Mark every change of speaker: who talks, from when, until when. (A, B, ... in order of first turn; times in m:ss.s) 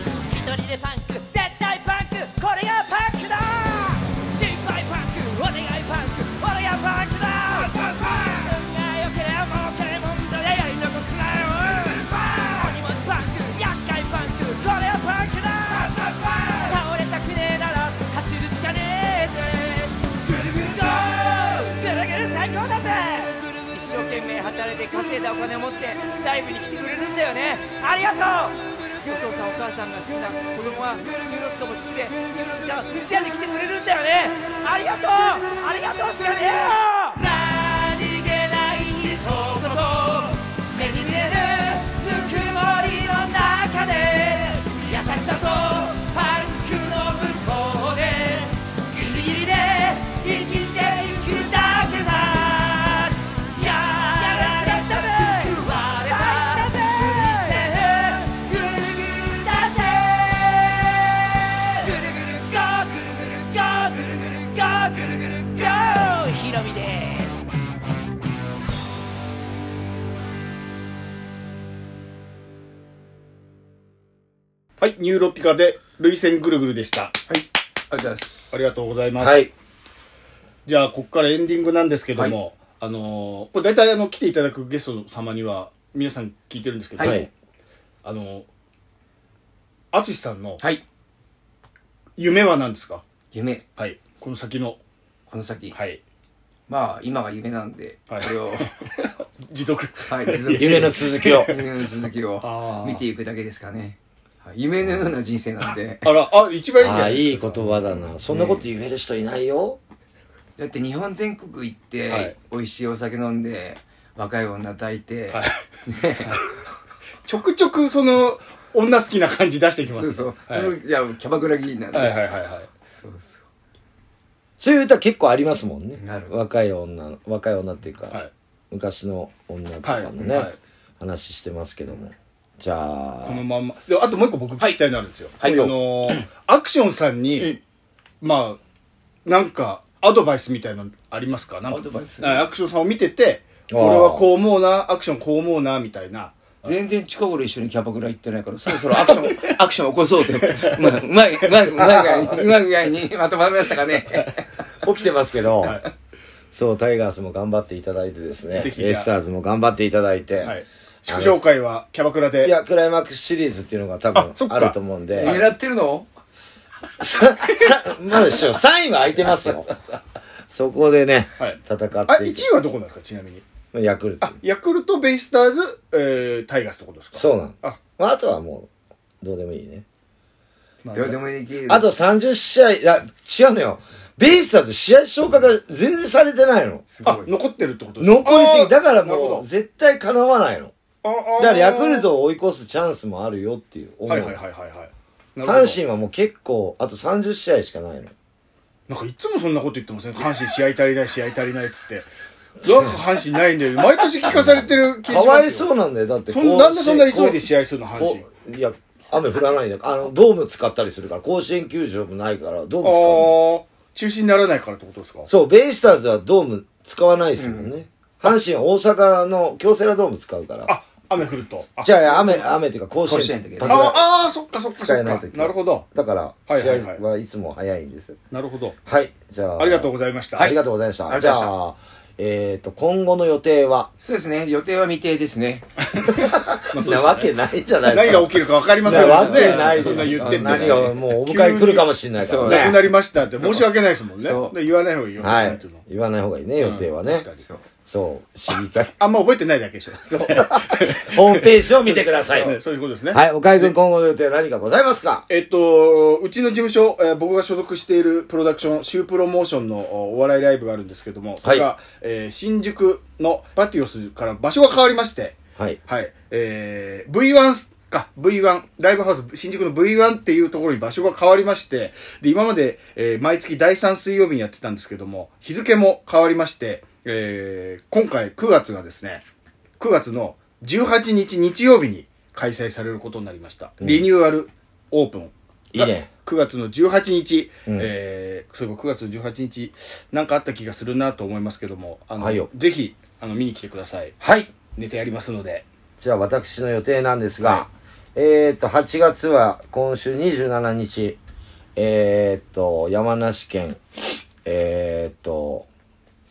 0:00.3-1:07.5 A
1:14.8-1:17.2 B
1:17.3-1:18.6 C
1:18.5-1:19.5 B
1:19.2-1:19.5 D
1:20.7-1:27.3 B
1:27.0-1:27.3 C
1:27.0-1:27.3 D
1:28.0-1:28.5 B
1:29.9-1:30.6 B
1:32.2-1:33.0 B
1:33.3-1:33.6 C
1:33.8-1:34.8 B
1:35.3-1:35.8 C
1:35.7-1:36.0 B
1:36.7-1:38.8 C
1:38.1-1:41.6 B
1:40.1-1:46.1 C
1:40.6-1:41.6 D
1:42.4-1:43.0 B
1:46.0-1:47.8 B
1:46.8-1:49.8 D
1:48.3-1:48.6 C
1:50.6-1:56.4 C
1:52.1-1:52.4 B
1:55.3-1:55.6 B
1:57.3-2:00.8 B
1:59.9-2:02.3 C
2:01.9-2:02.7 B
2:02.8-2:03.4 C
2:04.6-2:08.2 D
2:06.0-2:06.4 C
2:08.7-2:10.5 D
2:09.8-2:10.6 B
2:10.2-2:10.5 C
2:11.0-2:13.4 D
2:13.2-2:17.6 B
2:15.4-2:16.2 C
2:15.4-2:15.8 D
2:18.2-2:18.6 B
2:19.2-2:26.7 B
2:21.7-2:22.5 C
2:23.7-2:24.3 D
2:26.6-2:34.5 C
2:29.0-2:29.4 B
2:30.4-2:31.0 B
2:31.8-2:32.5 D
2:34.8-2:35.8 D
2:35.6-2:35.9 B
2:36.5-2:40.6 D
2:38.6-2:39.1 B
2:40.4-2:42.6 B
2:41.1-2:41.4 D
2:42.4-2:45.4 D
2:44.1-2:45.4 B
2:45.2-2:46.1 C
2:47.0-2:49.8 D
2:50.5-2:52.5 D
2:51.4-2:53.4 B
2:53.7-2:54.4 D
2:54.2-2:57.8 B
2:57.1-2:58.7 D
2:59.2-2:59.8 D
3:00.8-3:01.2 B
3:00.9-3:01.9 C
3:01.7-3:06.9 D
3:06.9-3:07.4 C
3:07.0-3:09.5 B
3:08.0-3:10.7 D
3:11.0-3:12.1 B
3:11.4-3:14.4 D
3:14.1-3:15.8 B
3:15.4-3:18.1 D
3:18.9-3:22.1 B
3:22.6-3:25.7 B
3:22.6-3:23.0 D
3:24.3-3:27.4 D
3:26.3-3:28.2 B
3:28.0-3:33.4 D
3:32.8-3:35.3 B
3:35.3-3:40.7 D
3:37.4-3:37.7 C
3:40.7-3:42.5 B
3:41.8-3:44.0 D
3:43.0-3:43.9 C
3:43.6-3:45.9 B
3:44.7-3:48.2 D
3:46.5-3:47.0 B
3:48.3-3:48.8 B
3:48.9-3:53.9 D
3:49.6-3:50.5 B
3:50.4-3:51.5 C
3:54.0-3:55.7 C
3:55.9-4:05.8 B
3:56.1-4:02.8 D
3:58.8-4:01.0 C
4:02.2-4:04.6 C
4:05.2-4:07.3 D
4:06.6-4:07.4 B
4:07.9-4:08.9 D
4:09.0-4:13.7 B
4:10.0-4:10.5 C
4:10.3-4:12.6 D
4:12.2-4:12.5 C
4:13.1-4:15.3 D
4:15.3-4:39.2 B
4:21.4-4:21.7 D
4:39.8-4:54.2 B
4:43.8-4:44.1 D
4:45.7-4:46.1 D
4:52.2-4:52.5 D
4:54.2-4:54.5 D
4:54.8-4:55.7 B
4:56.0-5:01.2 D
4:57.4-4:57.7 B
5:01.8-5:05.7 D